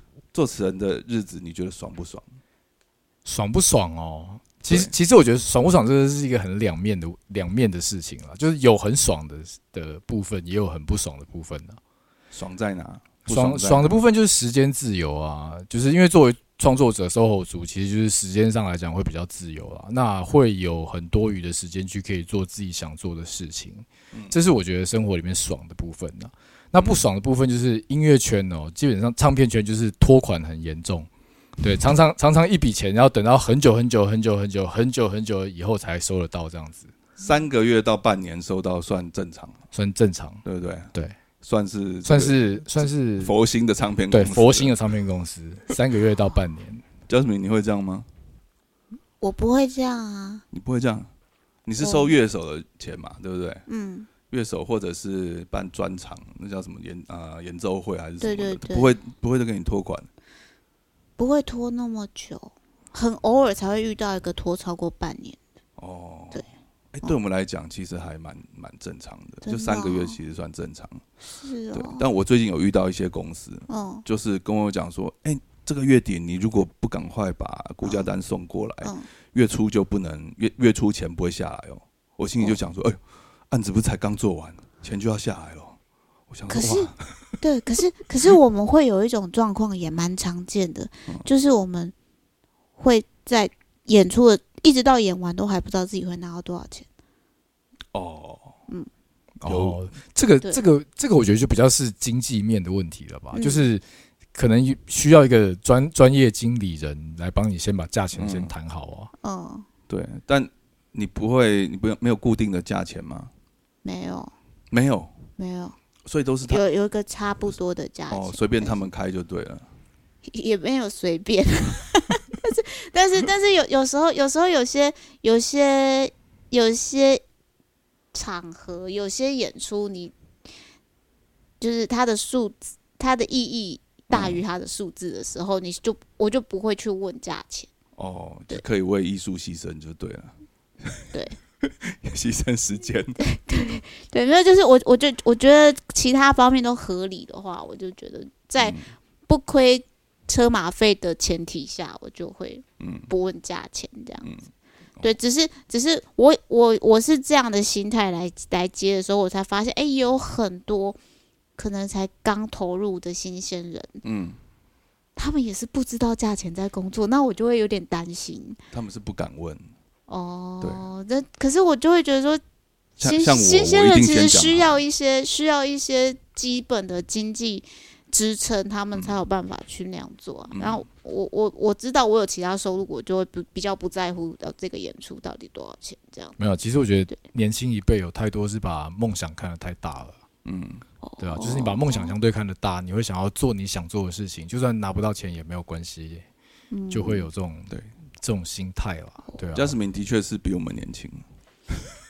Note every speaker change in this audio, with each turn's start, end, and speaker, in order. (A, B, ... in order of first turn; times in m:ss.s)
0:00.3-0:02.2 A
0:03.2-0:11.8 B
0:04.7-0:04.9 A
0:12.3-0:14.0 A
0:13.3-0:31.1 B
0:26.8-0:27.0 A
0:31.6-0:36.9 B
0:37.2-0:39.6 A
0:39.7-0:40.4 B
0:40.4-0:40.9 A
0:41.4-0:44.7 A
0:42.0-0:43.3 B
0:44.1-0:46.8 B
0:47.1-0:48.1 A
0:49.2-0:50.4 C
0:50.5-0:51.1 A
0:51.6-0:53.6 A
0:51.8-0:52.1 C
0:53.7-0:54.1 C
0:54.3-1:00.1 A
0:58.2-0:58.9 C
1:01.2-1:05.4 C
1:05.8-1:11.0 A
1:09.4-1:10.2 C
1:11.3-1:12.0 C
1:11.7-1:23.0 A
1:13.7-1:14.0 C
1:17.8-1:18.1 C
1:23.5-1:25.8 A
1:26.3-1:27.4 A
1:26.5-1:31.9 C
1:32.8-1:36.8 C
1:37.9-1:38.6 A
1:39.4-1:43.8 B
1:39.4-1:39.8 A
1:43.3-1:43.6 C
1:44.3-1:49.1 B
1:48.2-1:48.5 A
1:49.2-1:49.6 C
1:49.9-1:53.3 A
1:53.8-1:54.3 C
1:54.7-1:55.1 A
1:55.4-1:55.8 C
1:56.0-1:56.6 A
1:56.5-1:58.7 C
1:58.1-1:59.7 A
2:00.3-2:07.2 C
2:08.1-2:10.1 C
2:11.6-2:17.7 C
2:14.1-2:14.4 A
2:18.0-2:23.2 A
2:23.2-2:34.3 C
2:28.6-2:28.9 A
2:32.8-2:33.1 A
2:35.0-2:41.0 C
2:41.6-2:44.0 C
2:44.0-2:44.4 A
2:45.2-2:48.6 C
2:48.7-2:49.6 A
2:50.1-2:52.4 C
2:50.6-2:50.8 A
2:53.0-3:06.3 C
2:53.0-2:54.8 A
2:58.9-2:59.2 A
3:00.5-3:00.8 A
3:06.4-3:10.2 B
3:10.4-3:10.8 A
3:11.0-3:12.1 C
3:11.2-3:16.2 B
3:16.7-3:17.3 C
3:16.9-3:19.7 B
3:19.5-3:21.2 A